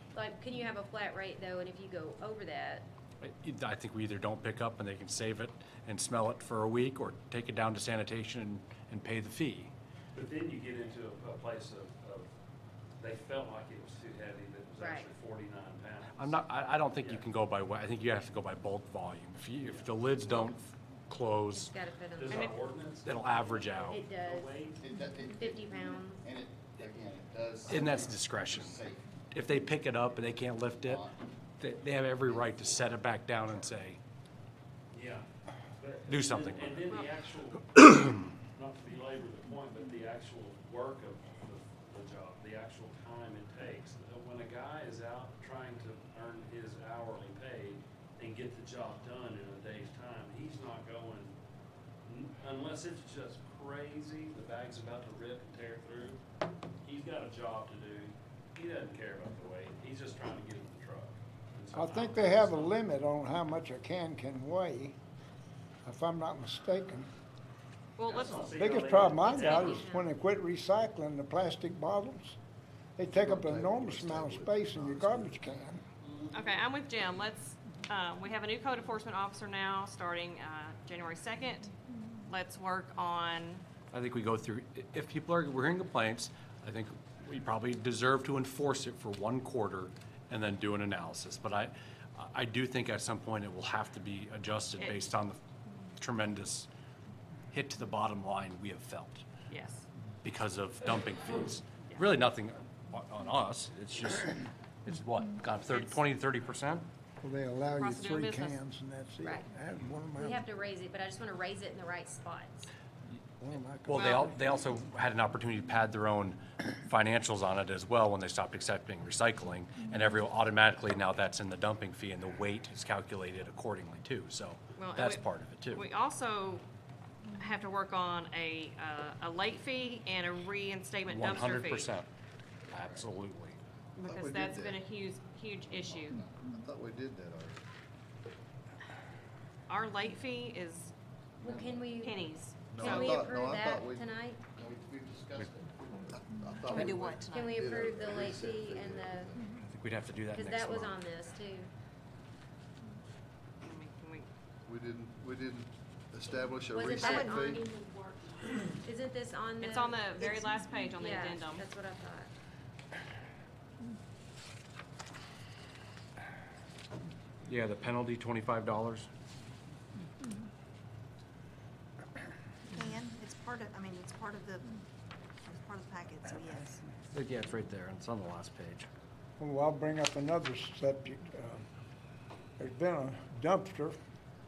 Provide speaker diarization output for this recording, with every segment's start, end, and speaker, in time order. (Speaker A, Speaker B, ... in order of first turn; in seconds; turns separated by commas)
Speaker A: 0.1-2.9, Speaker B: 3.2-9.7, Speaker C: 10.1-12.3, Speaker C: 13.0-17.3, Speaker A: 14.8-15.1, Speaker B: 16.1-21.7, Speaker C: 19.6-20.2, Speaker A: 21.5-22.5, Speaker C: 22.2-24.8, Speaker D: 22.3-22.6, Speaker B: 23.0-24.0, Speaker A: 23.9-24.6, Speaker E: 24.8-29.1, Speaker A: 25.3-26.2, Speaker B: 27.7-34.0, Speaker E: 30.8-31.3, Speaker C: 34.9-35.2, Speaker C: 35.8-51.3, Speaker B: 36.1-37.0, Speaker C: 52.0-56.2, Speaker C: 56.8-62.7, Speaker F: 61.7-65.0, Speaker F: 65.8-67.1, Speaker D: 68.0-68.5, Speaker C: 68.0-69.8, Speaker F: 68.4-72.4, Speaker A: 69.2-70.1, Speaker F: 73.0-75.8, Speaker E: 73.1-75.6, Speaker C: 76.0-76.6, Speaker D: 76.3-81.7, Speaker D: 82.3-83.6, Speaker B: 83.9-95.4, Speaker B: 96.0-96.7, Speaker B: 97.5-99.2, Speaker D: 99.5-99.8, Speaker B: 100.2-106.9, Speaker F: 107.2-110.4, Speaker D: 107.8-108.6, Speaker A: 110.2-112.7, Speaker F: 113.4-114.6, Speaker B: 113.9-125.8, Speaker D: 113.9-114.3, Speaker D: 124.8-126.6, Speaker D: 127.3-131.9, Speaker B: 131.1-132.1, Speaker B: 132.7-133.6, Speaker D: 134.0-136.2, Speaker E: 134.0-134.8, Speaker E: 135.7-137.6, Speaker D: 139.7-140.9, Speaker E: 141.4-141.9, Speaker A: 141.4-142.2, Speaker D: 142.0-143.2, Speaker E: 142.7-149.6, Speaker A: 142.7-144.4, Speaker G: 146.6-147.8, Speaker A: 146.7-149.3, Speaker B: 149.6-151.0, Speaker A: 150.3-151.7, Speaker D: 153.6-154.3, Speaker E: 154.7-157.7, Speaker A: 156.7-157.8, Speaker G: 156.9-157.6, Speaker A: 158.7-160.4, Speaker D: 159.6-161.6, Speaker A: 160.9-162.3, Speaker B: 167.4-169.1, Speaker G: 172.7-174.7, Speaker G: 175.4-176.8, Speaker B: 177.1-178.9, Speaker F: 179.4-181.6, Speaker F: 182.6-183.9